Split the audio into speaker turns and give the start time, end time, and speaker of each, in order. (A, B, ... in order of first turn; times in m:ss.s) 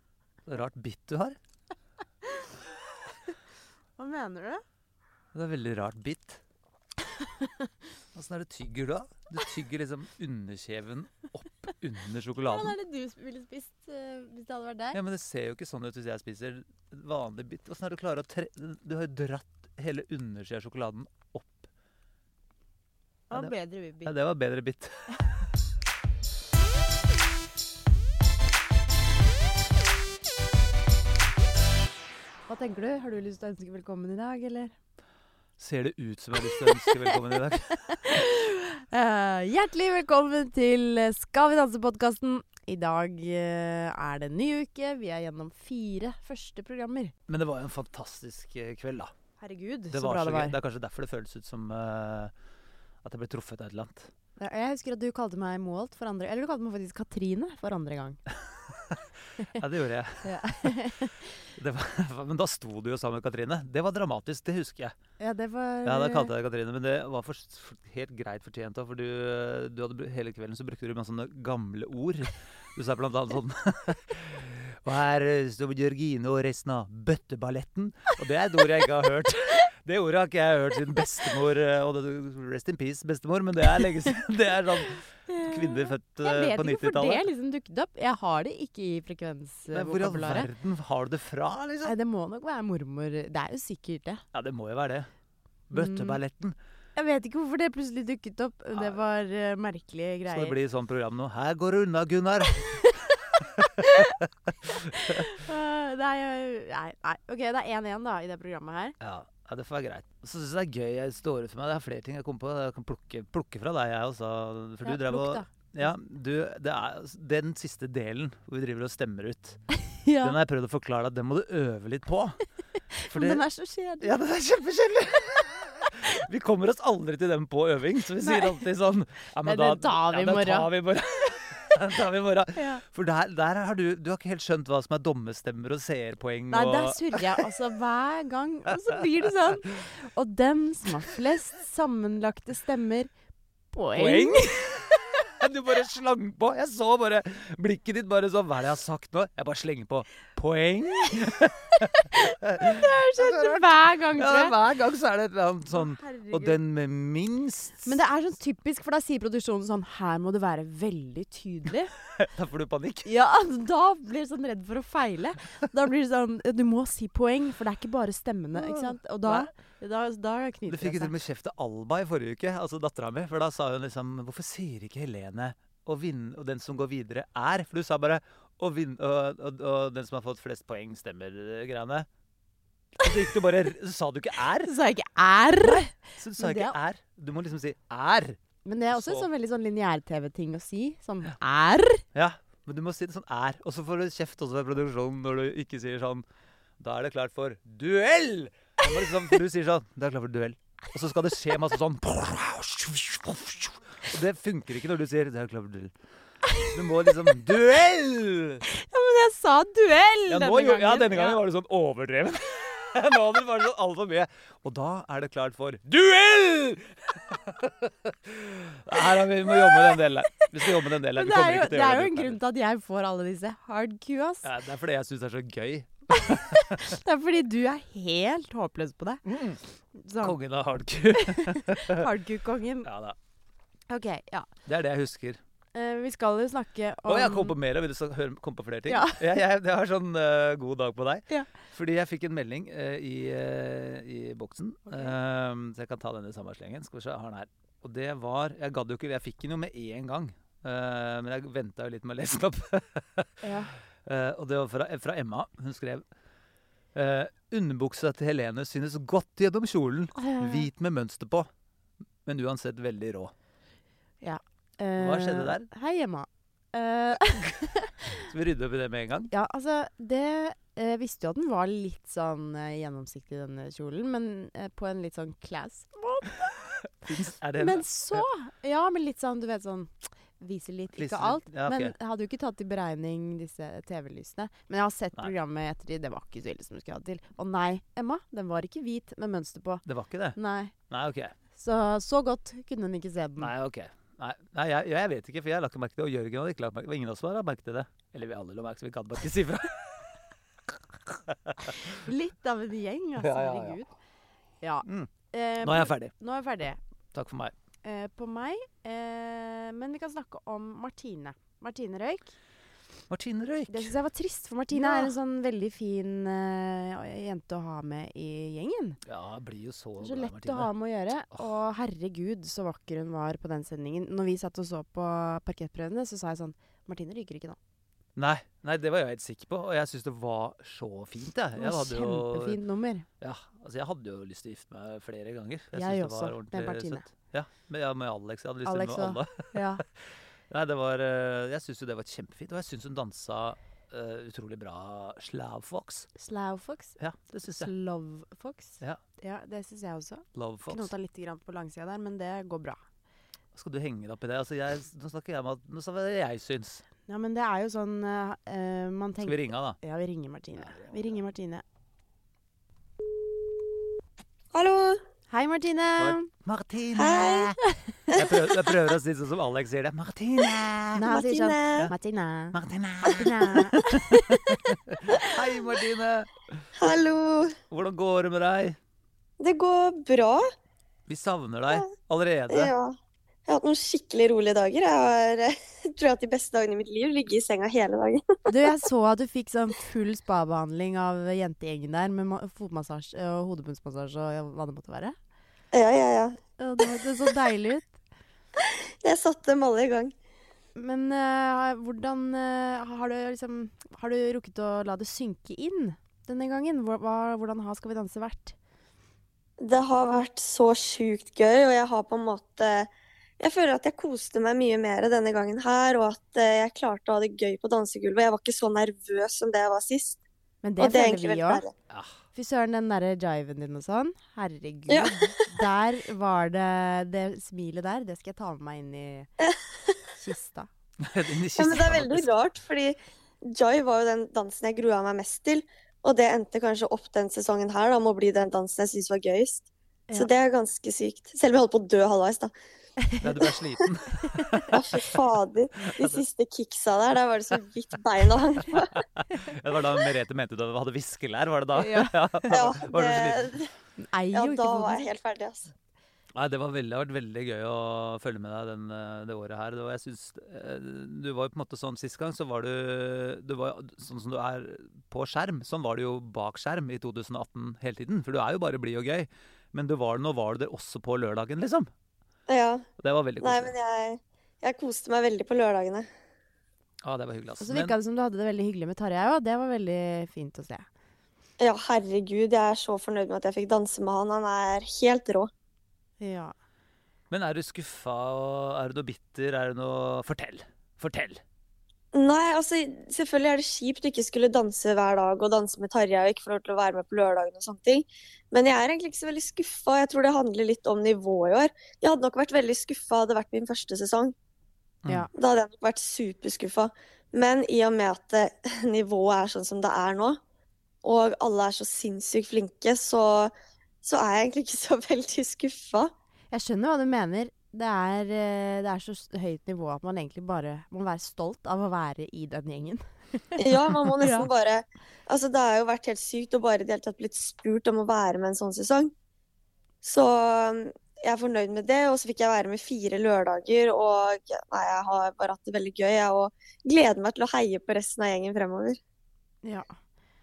0:00.4-0:01.4 A
0:04.0-0:04.6 B
0:05.3-0:06.4 A
0:08.1-0:12.7 A
0:12.4-0:15.0 B
0:14.9-0:21.7 A
0:23.3-0:24.1 B
0:23.3-0:25.3 A
0:32.5-0:34.7 B
0:35.6-0:38.0 A
0:36.6-0:37.0 B
0:37.9-0:47.1 B
0:47.3-0:49.1 A
0:49.4-0:50.6 B
0:49.9-0:52.3 A
0:53.0-0:54.1 A
0:54.4-0:58.2 B
0:58.5-1:00.7 A
1:00.2-1:01.3 B
1:01.5-1:04.9 A
1:05.2-1:06.3 B
1:05.8-1:27.2 A
1:25.3-1:30.5 B
1:29.7-1:31.9 A
1:31.8-1:34.2 B
1:34.3-1:35.1 A
1:35.7-1:36.6 A
1:35.7-1:36.2 B
1:37.0-1:40.5 B
1:40.3-1:42.7 A
1:42.7-1:42.9 B
1:43.4-1:45.3 A
1:43.8-1:44.1 B
1:44.6-1:49.0 B
1:49.0-1:59.6 A
1:54.8-1:55.8 B
1:59.9-2:00.4 B
2:00.2-2:02.4 A
2:02.9-2:04.1 B
2:03.1-2:03.4 A
2:04.0-2:17.4 A
2:08.2-2:08.6 B
2:09.4-2:10.7 B
2:12.6-2:12.8 B
2:16.5-2:23.1 B
2:18.7-2:19.8 A
2:23.7-2:24.7 B
2:23.9-2:38.0 A
2:32.1-2:34.6 B
2:35.7-2:36.6 B
2:37.8-2:41.9 B
2:42.2-2:43.1 A
2:43.0-2:51.1 B
2:48.6-2:49.5 A
2:50.7-3:02.1 A
3:03.0-3:04.7 A
3:04.6-3:06.7 B
3:05.6-3:08.4 A
3:08.6-3:12.0 B
3:08.9-3:09.3 A
3:12.1-3:16.2 A
3:16.8-3:25.9 A
3:26.5-3:27.3 B
3:26.7-3:28.6 A
3:28.7-3:31.4 B
3:30.3-3:42.4 A
3:39.6-3:39.9 B
3:41.1-3:44.4 B
3:44.4-3:46.9 A
3:46.3-3:49.2 B
3:49.2-3:49.6 A
3:49.9-3:50.4 B
3:50.2-3:52.0 A
3:51.1-3:52.9 B
3:52.8-3:53.2 A
3:53.9-3:54.5 B
3:54.6-3:55.4 A
3:55.7-3:57.6 B
3:57.1-4:13.4 A
3:58.9-3:59.3 B
4:13.4-4:13.7 B
4:14.0-4:16.0 A
4:16.9-4:21.5 A
4:20.2-4:20.7 B
4:22.2-4:23.3 A
4:24.2-4:28.3 B
4:25.0-4:25.7 A
4:28.1-4:29.3 A
4:29.3-4:36.5 B
4:37.0-4:38.2 A
4:37.6-4:49.8 B
4:40.9-4:41.9 A
4:49.8-4:50.4 A
4:50.4-4:50.7 B
4:50.9-4:51.3 A
4:51.6-4:53.5 B
4:53.4-5:00.1 A
5:01.0-5:02.0 A
5:01.9-5:03.8 B
5:03.2-5:03.8 A
5:04.6-5:06.8 B
5:04.8-5:05.1 A
5:05.6-5:06.1 A
5:07.1-5:07.5 A
5:07.8-5:12.3 B
5:13.1-5:13.9 A
5:13.7-5:19.0 B
5:14.7-5:15.1 A
5:19.0-5:20.7 A
5:20.0-5:27.6 B
5:28.2-5:32.6 A
5:31.6-5:33.0 B
5:33.2-5:46.1 A
5:35.7-5:37.0 B
5:38.6-5:39.8 B
5:46.2-5:52.8 B
5:47.0-5:47.7 A
5:50.3-5:50.9 A
5:53.5-5:56.8 A
5:57.1-6:01.6 B
5:59.2-5:59.8 A
6:00.6-6:00.9 A
6:04.5-6:05.0 C
6:05.3-6:06.3 B
6:06.0-6:11.0 A
6:07.0-6:07.5 C
6:07.6-6:08.1 B
6:11.0-6:14.6 B
6:11.0-6:11.9 C
6:12.5-6:16.6 A
6:16.8-6:17.5 C
6:17.7-6:18.8 A
6:19.4-6:20.4 C
6:21.1-6:22.7 A
6:22.5-6:23.0 C
6:23.5-6:28.3 C
6:28.5-6:35.1 B
6:35.7-6:37.0 C
6:36.6-6:37.9 B
6:38.6-6:40.1 C
6:40.8-6:48.5 B
6:49.6-7:00.2 C
7:00.6-7:01.6 B
7:00.8-7:01.7 C
7:01.9-7:02.1 A
7:02.3-7:09.3 B
7:04.9-7:05.4 C
7:09.4-7:09.9 C
7:10.2-7:10.7 B
7:11.0-7:12.3 A
7:11.6-7:22.5 C
7:23.2-7:24.7 A
7:24.3-7:24.7 B
7:24.7-7:28.9 C
7:26.0-7:26.2 A
7:28.7-7:33.5 A
7:31.7-7:32.2 B
7:32.5-7:33.7 C
7:34.0-7:35.1 B
7:34.3-7:35.7 C
7:36.4-7:51.9 A
7:52.5-7:52.8 C
7:53.0-7:53.7 A
7:53.4-7:56.0 C
7:57.0-7:57.9 A
7:57.6-8:00.8 B
8:01.6-8:05.5 C
8:06.2-8:06.5 B
8:07.3-8:11.4 A
8:12.1-8:24.3 C
8:25.3-8:30.4 C
8:31.0-8:36.1 C
8:36.5-8:44.5 B
8:43.6-8:49.1 C
8:50.0-8:59.0 C
8:59.6-8:59.9 B